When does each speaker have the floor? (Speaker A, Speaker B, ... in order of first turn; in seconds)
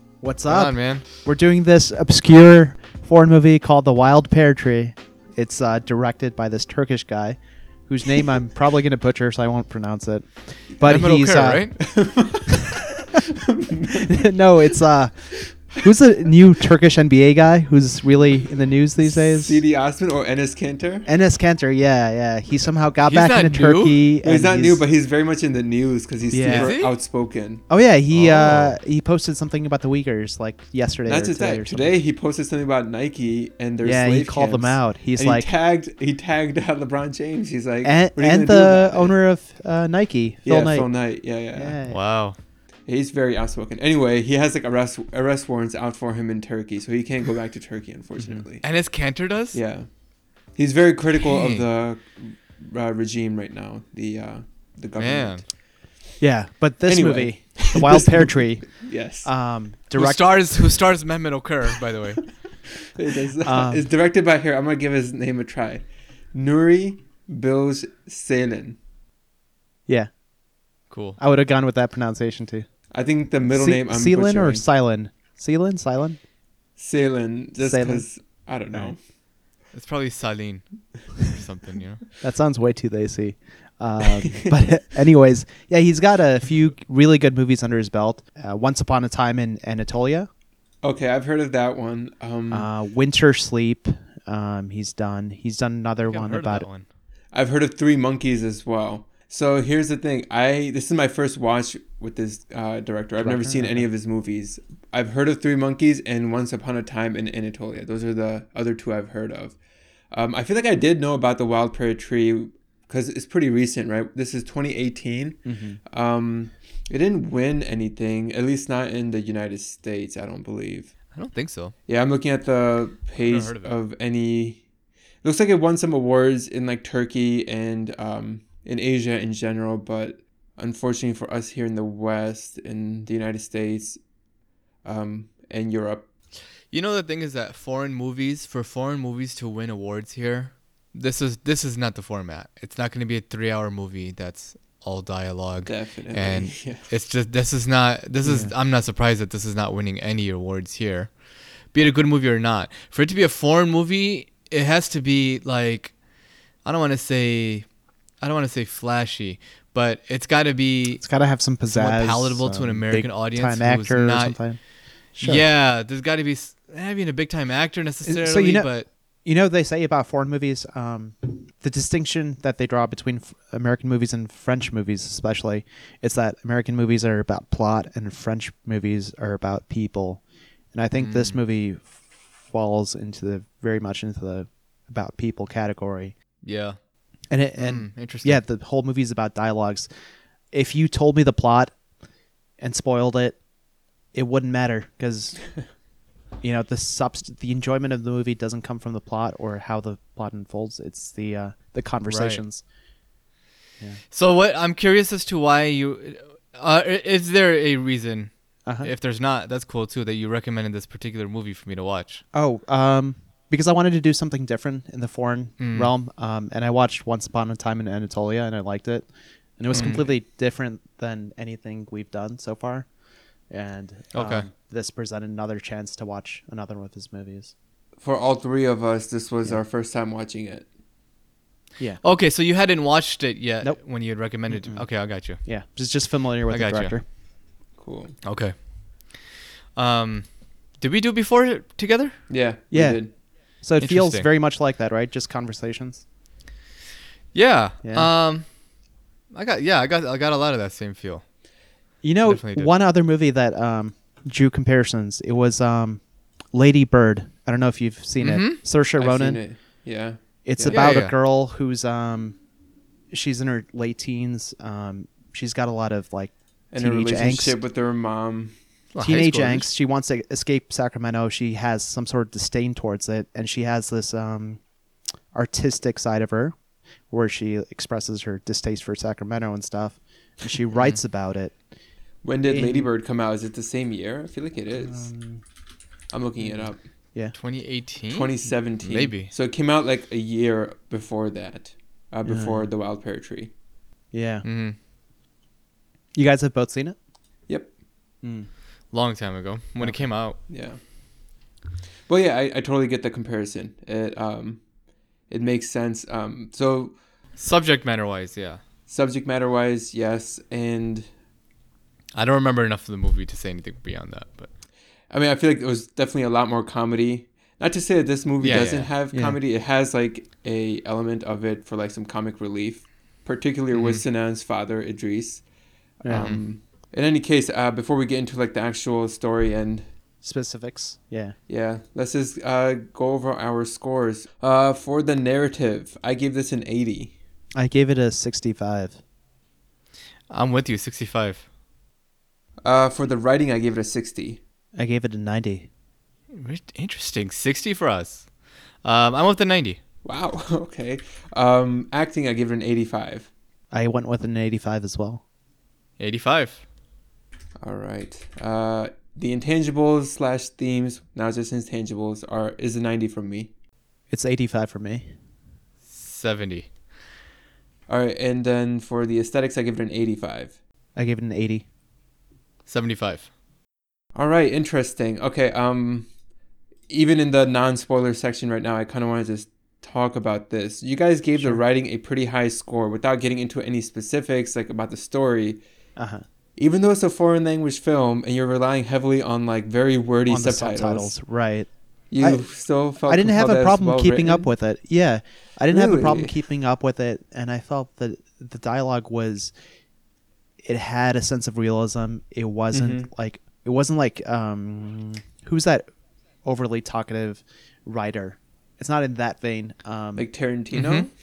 Speaker A: 0.2-11.7, 14.0-15.1, 15.7-19.6, 21.1-24.8, 26.3-26.7, 27.7-31.9, 33.8-35.5, 37.8-40.9, 41.5-42.0, 48.2-48.5, 56.2-60.7, 63.4-63.9, 71.2-72.7, 73.4-76.2, 77.6-78.1, 82.2-90.3, 92.5-96.7, 103.2-103.9, 115.4-115.8, 148.2-148.5, 161.0-164.6, 165.2-165.4, 168.0-168.7, 169.2-180.2, 180.7-186.1, 187.3-189.9, 190.5-191.7, 192.6-193.4, 194.1-195.5, 196.4-202.6, 208.7-208.9, 212.3-219.1, 219.6-222.9, 223.5-227.5, 234.5-234.8, 235.4-237.0, 242.7-243.0, 243.6-246.0, 247.8-248.1, 252.0-256.0, 256.5-259.4, 260.4-262.4, 263.1-267.6, 269.0-274.6, 275.3-276.5, 277.1-281.6, 282.5-282.9, 284.8-285.4, 286.4-287.3, 292.2-292.7, 294.1-294.4, 296.1-296.9, 298.2-298.5, 319.1-319.4, 326.0-326.3, 330.2-331.4, 337.5-339.0, 344.8-345.7, 353.7-355.2, 364.1-365.1, 370.9-371.6, 386.0-386.2, 390.3-391.7, 393.1-399.5, 400.6-405.9, 406.4-410.3
Speaker B: 0.5-1.1, 10.8-11.7, 23.0-24.1, 26.4-26.9, 28.1-28.8, 41.9-42.4, 48.6-49.6, 51.2-51.6, 55.0-55.4, 60.0-62.3, 70.9-71.2, 79.7-82.0, 96.0-96.8, 121.1-121.7, 123.2-123.7, 136.7-151.2, 151.7-155.9, 156.6-157.6, 158.2-161.0, 161.7-164.4, 165.2-168.9, 181.0-181.4, 186.4-186.8, 187.6-188.4, 202.1-202.4, 204.1-212.2, 215.6-215.9, 219.7-220.1, 224.1-224.5, 232.0-235.4, 236.5-236.9, 238.2-238.5, 239.8-240.2, 240.8-242.1, 243.8-244.3, 247.3-248.4, 249.3-251.2, 252.2-252.7, 258.2-258.6, 260.7-261.1, 268.9-269.7, 280.7-281.0, 287.3-289.3, 294.4-294.8, 298.9-300.4, 307.4-308.6, 312.1-314.5, 318.4-318.9, 323.7-324.0, 326.1-326.4, 340.3-341.4, 346.3-348.3, 348.8-349.8, 356.0-356.6, 365.9-366.7, 372.6-373.3, 410.7-411.1
Speaker C: 11.8-14.2, 19.0-21.1, 24.2-27.6, 31.1-39.1, 40.4-41.8, 42.9-48.6, 49.5-49.9, 50.5-55.4, 56.9-59.3, 62.9-68.8, 72.9-74.6, 76.8-79.0, 90.8-92.7, 97.3-109.6, 110.1-120.9, 121.9-124.6, 125.2-134.0, 134.8-136.1, 145.7-146.9, 228.0-230.7, 237.8-238.1, 242.3-243.1, 259.0-260.9, 266.7-268.5, 282.2-285.1, 286.1-286.8, 288.1-293.5, 300.5-300.8, 302.1-304.6, 305.3-306.9, 308.9-311.1, 315.1-325.4, 326.0-329.9, 331.5-337.1, 342.6-344.4, 350.0-353.3, 357.6-363.5, 367.9-370.6, 374.1-376.1, 376.9-385.6, 386.6-391.1, 392.1-394.5, 395.7-396.3, 402.7-403.1, 410.1-411.1